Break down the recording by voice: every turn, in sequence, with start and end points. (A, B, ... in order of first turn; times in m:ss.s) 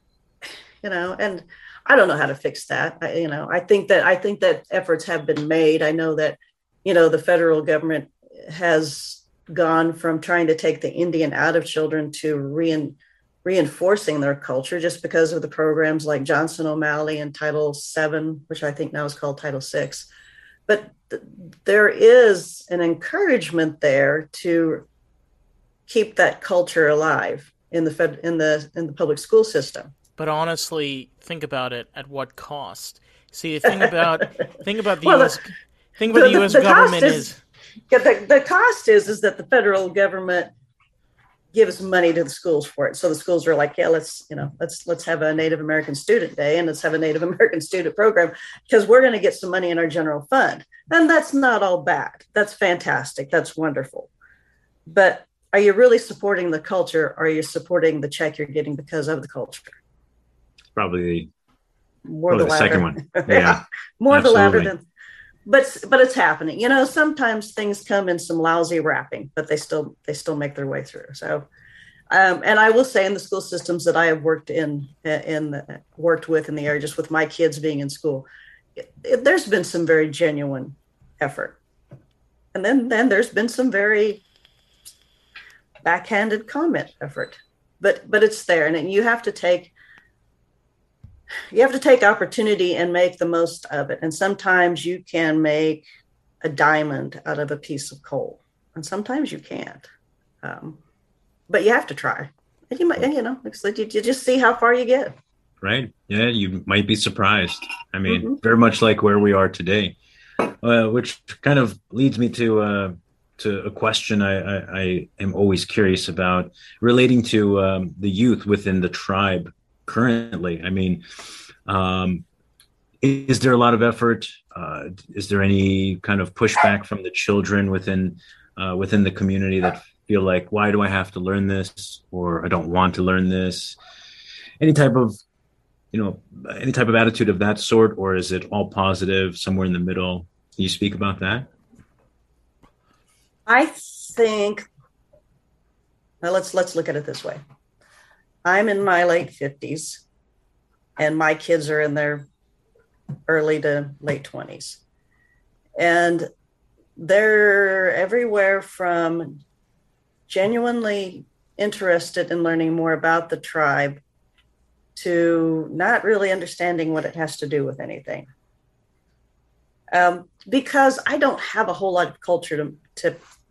0:00.8-0:20.1 A
0:20.7-0:24.9 A
0:25.9-0:29.9 A
0:30.2-0:37.4 B
0:33.6-0:34.5 A
0:35.0-0:35.4 A
0:36.1-0:37.3 A
0:37.9-0:40.5 A
0:41.5-0:54.1 A
0:54.9-0:59.8 A
1:00.8-1:01.3 C
1:02.1-1:04.8 A
1:02.3-1:04.7 C
1:05.5-1:11.4 A
1:12.1-1:18.3 A
1:18.8-1:21.6 A
1:22.5-1:24.2 A
1:25.8-1:29.7 A
1:31.5-1:35.9 A
1:36.4-1:39.9 A
1:40.4-1:40.8 A
1:41.5-1:45.2 A
1:45.6-1:50.0 C
1:48.1-1:48.4 A
1:50.6-2:01.0 C
2:01.7-2:02.2 C
2:03.0-2:13.8 C
2:14.6-2:15.2 C
2:15.9-2:21.5 C
2:23.5-2:24.7 A
2:26.2-2:27.4 A
2:28.4-2:30.0 A
2:31.0-2:32.3 A
2:33.3-2:34.8 A
2:35.8-2:36.3 A
2:37.0-2:39.4 A
2:40.3-2:44.0 A
2:45.0-2:48.3 A
2:49.9-2:53.2 A